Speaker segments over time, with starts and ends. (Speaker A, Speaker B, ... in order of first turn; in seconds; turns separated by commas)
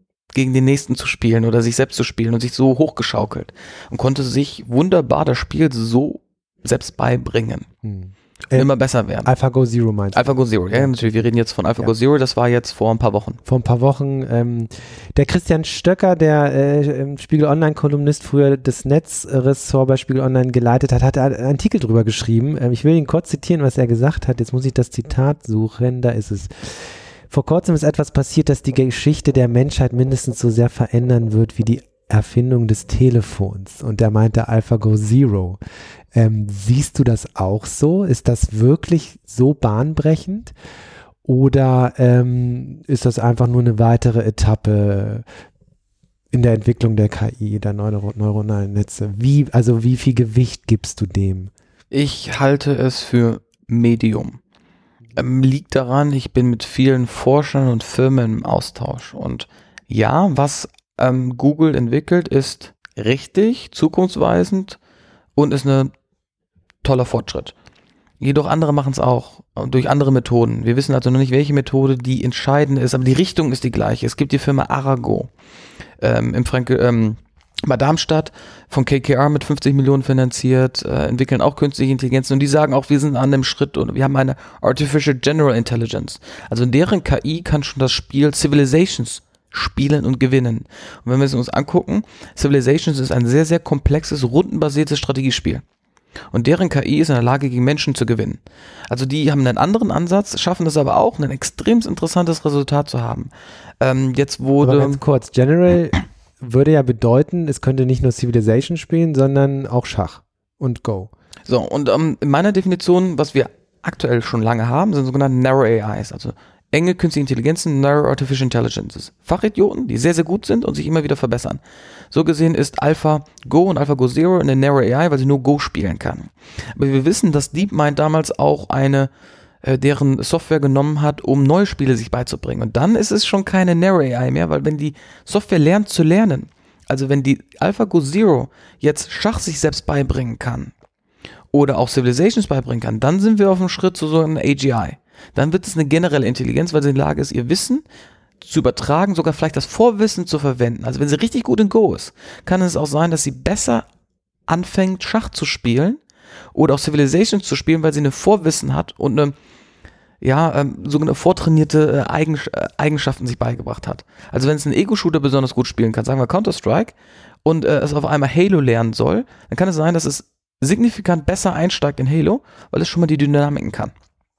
Speaker A: 0.3-7.7, Speaker B: 7.8-8.7, Speaker A: 8.5-9.3, Speaker B: 9.2-11.3, Speaker A: 10.1-13.4, Speaker B: 13.4-35.6, Speaker B: 36.1-40.5, Speaker B: 41.2-45.3, Speaker B: 46.3-51.5, Speaker A: 51.9-54.4, Speaker A: 55.2-64.8, Speaker A: 65.4-65.9, Speaker A: 66.8-67.5, Speaker A: 68.2-75.3, Speaker A: 76.0-95.6, Speaker A: 96.3-103.3, Speaker A: 103.8-105.0, Speaker B: 104.6-111.1, Speaker A: 111.5-129.1, Speaker A: 129.6-140.7, Speaker A: 141.5-147.8, Speaker A: 148.4-153.9, Speaker A: 154.5-156.0, Speaker A: 156.6-159.3, Speaker A: 160.2-173.9